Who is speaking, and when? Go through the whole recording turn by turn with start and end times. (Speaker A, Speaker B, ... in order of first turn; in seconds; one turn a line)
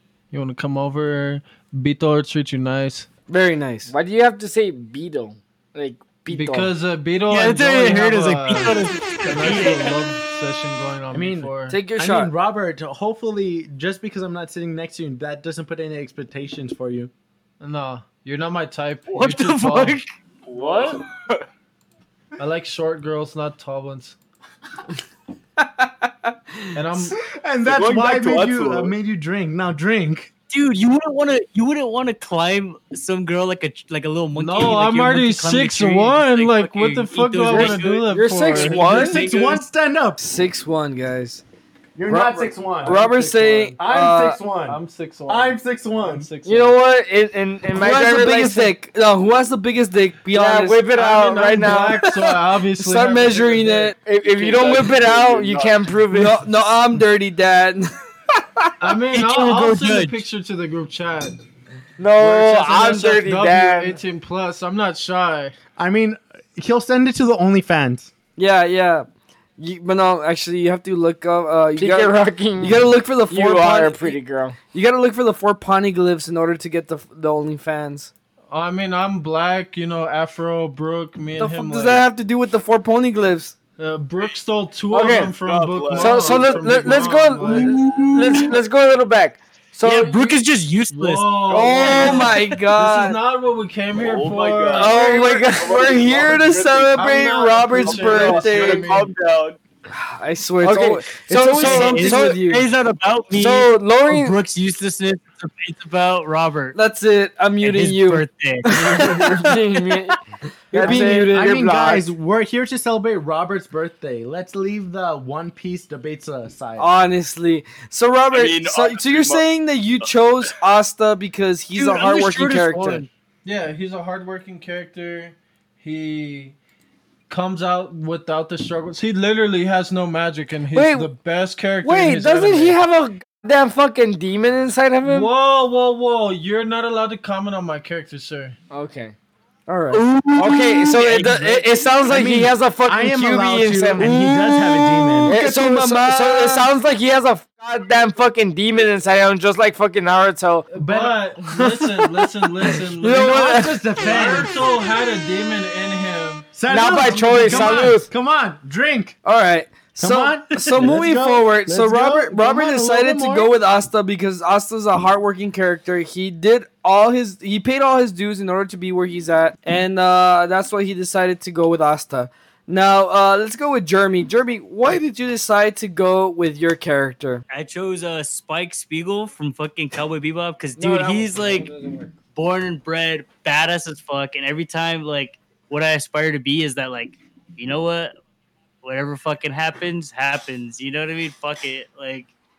Speaker A: 0.3-3.1
Speaker B: 3.3-3.9
Speaker C: 3.9-6.7
Speaker A: 6.3-11.8
Speaker D: 7.3-10.0
Speaker E: 11.1-17.1
Speaker B: 11.7-12.3
Speaker A: 17.6-20.0
Speaker D: 19.1-20.1
Speaker F: 20.5-21.4
Speaker A: 20.6-20.9
Speaker A: 22.4-24.2
Speaker B: 25.6-26.3
Speaker A: 26.8-27.2
Speaker E: 27.2-30.3
Speaker F: 27.6-28.9
Speaker D: 30.5-39.6
Speaker A: 34.4-39.3
Speaker C: 37.5-39.3
Speaker E: 38.9-40.2
Speaker B: 40.2-41.4
Speaker E: 42.0-46.3
Speaker B: 42.1-44.4
Speaker A: 42.9-43.7
Speaker A: 44.6-46.8
Speaker C: 46.5-48.7
Speaker B: 47.7-50.8
Speaker C: 50.3-52.1
Speaker A: 50.9-54.0
Speaker B: 52.8-54.0
Speaker C: 54.0-56.4
Speaker F: 54.3-56.0
Speaker B: 56.1-57.9
Speaker A: 58.8-61.4
Speaker D: 59.1-60.2
Speaker C: 62.0-64.0
Speaker A: 62.2-65.5
Speaker E: 65.8-68.1
Speaker B: 68.4-69.1
Speaker B: 69.6-74.2
Speaker C: 71.8-74.6
Speaker B: 74.7-78.1
Speaker A: 78.5-82.0
Speaker B: 81.4-83.5
Speaker A: 83.8-87.8
Speaker C: 84.9-85.3
Speaker F: 85.3-87.1
Speaker C: 85.9-90.4
Speaker D: 87.4-88.6
Speaker D: 89.8-91.6
Speaker A: 90.9-95.0
Speaker B: 91.5-93.2
Speaker F: 91.5-92.2
Speaker D: 92.1-92.5
Speaker F: 93.9-99.6
Speaker C: 94.7-96.1
Speaker B: 95.0-98.9
Speaker A: 97.0-99.1
Speaker B: 99.9-102.6
Speaker C: 100.6-102.4
Speaker D: 101.5-106.8
Speaker C: 103.3-104.4
Speaker B: 106.7-109.6
Speaker D: 107.6-109.3
Speaker C: 108.8-110.2
Speaker B: 110.7-111.5
Speaker C: 110.7-112.1
Speaker E: 110.8-116.9
Speaker B: 116.8-123.1
Speaker F: 118.3-119.5
Speaker D: 121.8-123.1
Speaker A: 123.4-126.6
Speaker A: 127.3-132.8
Speaker C: 130.7-131.1
Speaker C: 131.8-135.3
Speaker A: 135.0-138.6
Speaker C: 138.7-139.2
Speaker B: 139.7-140.0
Speaker D: 139.9-141.8
Speaker C: 140.3-144.2
Speaker E: 142.1-145.4
Speaker B: 144.0-146.7
Speaker C: 145.2-150.7
Speaker A: 150.7-156.6
Speaker E: 150.8-151.3
Speaker C: 151.5-154.3
Speaker E: 153.0-154.5
Speaker E: 156.5-159.2
Speaker C: 156.7-158.1
Speaker A: 157.1-157.9
Speaker B: 159.2-177.4
Speaker E: 160.0-163.5
Speaker D: 177.5-181.7
Speaker C: 180.8-182.2
Speaker D: 182.3-188.1
Speaker D: 188.8-192.3